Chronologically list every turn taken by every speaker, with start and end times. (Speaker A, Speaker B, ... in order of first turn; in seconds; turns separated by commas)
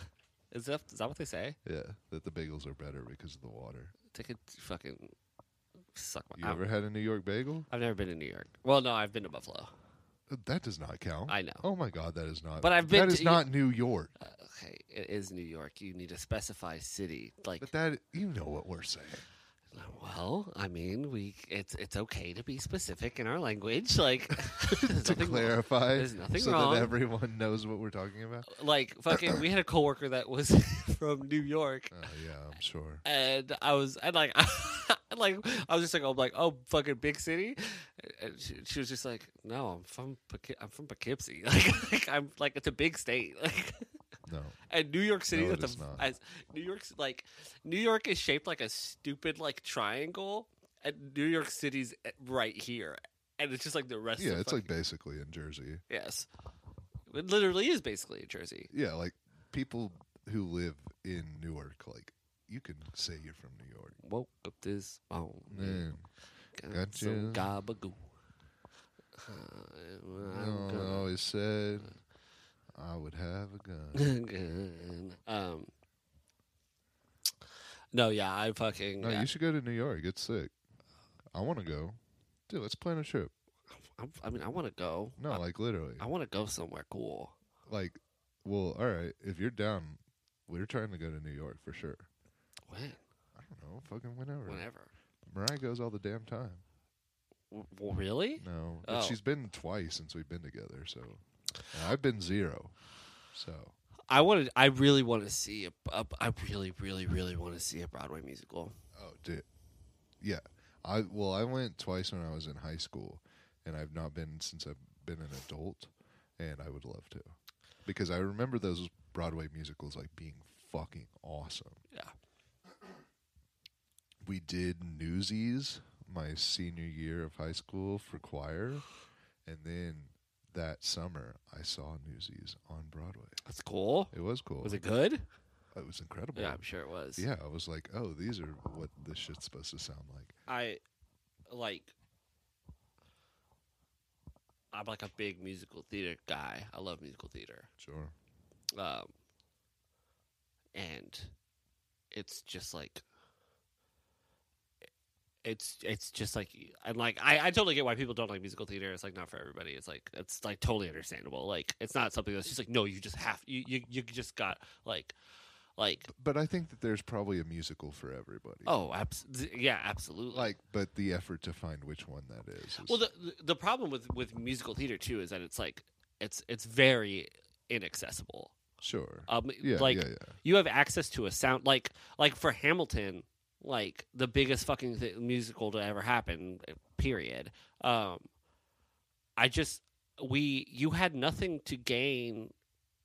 Speaker A: 0.5-1.6, Speaker B: 1.6-3.9, Speaker A: 4.1-5.1, Speaker A: 5.9-6.6, Speaker B: 6.4-7.7, Speaker A: 7.7-9.7, Speaker B: 10.3-14.1, Speaker A: 11.3-11.6, Speaker A: 12.6-13.5, Speaker A: 14.2-17.7, Speaker B: 17.6-19.2, Speaker A: 19.7-26.9, Speaker B: 24.7-28.5, Speaker A: 28.4-31.9, Speaker B: 29.1-29.4, Speaker B: 31.9-33.0, Speaker A: 33.0-43.8, Speaker B: 44.2-44.6, Speaker A: 44.7-54.7, Speaker B: 45.3-46.0, Speaker B: 54.2-55.8, Speaker A: 55.9-56.3, Speaker A: 57.1-58.7, Speaker B: 58.7-64.0, Speaker A: 64.0-65.9, Speaker B: 65.5-66.1, Speaker A: 66.5-68.0, Speaker B: 66.7-67.5, Speaker A: 69.2-71.1, Speaker B: 70.2-72.0, Speaker B: 72.7-74.1, Speaker A: 73.9-75.7, Speaker A: 77.9-79.3, Speaker B: 79.0-80.5, Speaker B: 81.3-83.3, Speaker A: 83.9-85.4, Speaker B: 85.2-86.0, Speaker A: 86.0-87.3, Speaker B: 87.7-92.1, Speaker A: 92.7-93.0, Speaker B: 93.3-94.6, Speaker A: 94.5-94.9, Speaker B: 95.3-96.6, Speaker A: 97.5-99.2, Speaker B: 98.4-102.8, Speaker B: 103.3-103.7, Speaker A: 104.1-108.8, Speaker B: 108.9-109.5, Speaker B: 110.2-121.8, Speaker B: 124.2-128.8, Speaker B: 129.4-133.4, Speaker A: 133.4-135.2, Speaker B: 134.1-134.8, Speaker B: 135.7-136.6, Speaker A: 136.3-137.2, Speaker B: 137.2-140.3, Speaker A: 140.5-140.8, Speaker A: 141.5-141.9, Speaker A: 144.7-147.7, Speaker B: 147.8-148.1, Speaker A: 148.7-149.1, Speaker A: 150.7-151.3, Speaker A: 152.1-153.0, Speaker A: 155.4-165.1, Speaker A: 165.8-166.1, Speaker B: 166.1-168.8, Speaker A: 168.6-170.5, Speaker B: 170.3-173.0, Speaker A: 172.8-178.6, Speaker B: 178.8-180.4, Speaker A: 179.3-188.3, Speaker A: 189.4-192.5